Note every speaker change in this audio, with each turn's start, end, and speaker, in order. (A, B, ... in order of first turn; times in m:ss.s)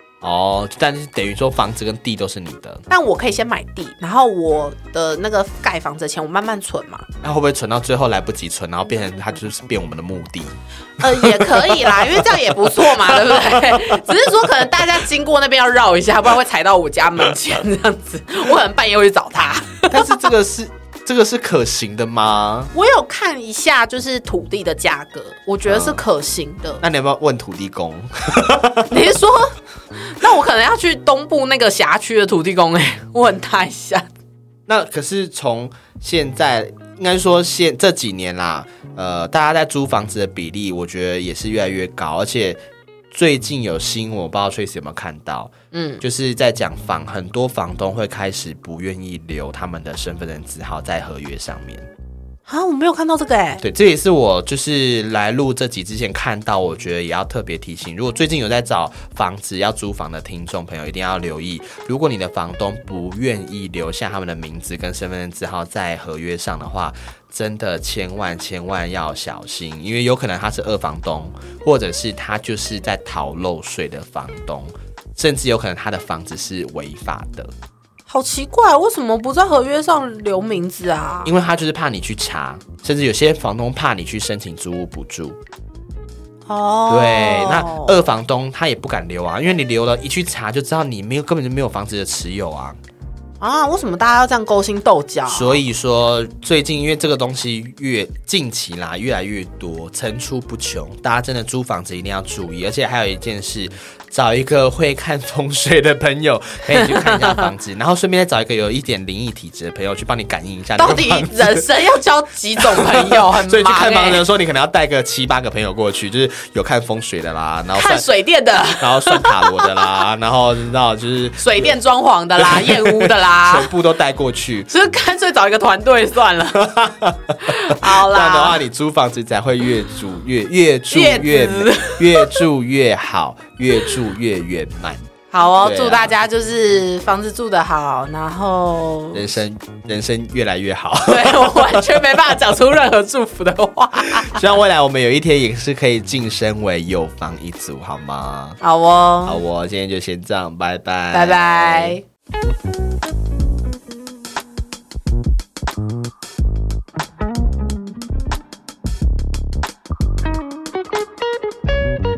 0:00.2-0:02.8 A
0:02.9-0:07.1 B
0:07.2-0:14.8 A
0:11.0-0:20.2 B
0:19.9-0:22.7 A
0:22.7-0:26.8 B
0:25.7-0:26.0 A
0:26.8-0:29.0 A
0:28.9-0:29.6 B
0:30.1-0:34.1 B
0:34.7-0:42.6 A
0:43.1-0:51.9 A
0:45.7-0:46.0 B
0:52.5-0:53.6 B
0:53.6-1:17.5 A
1:18.1-1:21.3 B
1:21.2-1:25.4 A
1:26.5-1:28.1 B
1:26.9-1:32.8 A
1:33.4-1:35.6 B
1:35.3-1:51.6 A
1:46.7-1:47.5 B
1:50.8-1:54.2 B
1:52.6-1:58.1 A
1:57.7-1:59.9 B
1:58.7-2:01.8 A
2:01.4-2:03.7 B
2:02.4-2:04.7 A
2:04.7-2:06.7 B
2:06.6-2:15.1 A
2:07.4-2:08.6 B
2:10.9-2:12.4 B
2:15.3-2:19.4 B
2:15.6-2:16.1 A
2:19.1-2:22.1 A
2:21.1-2:24.4 B
2:24.1-2:28.6 A
2:28.6-2:29.4 B
2:29.2-2:32.0 A
2:31.1-2:32.0 B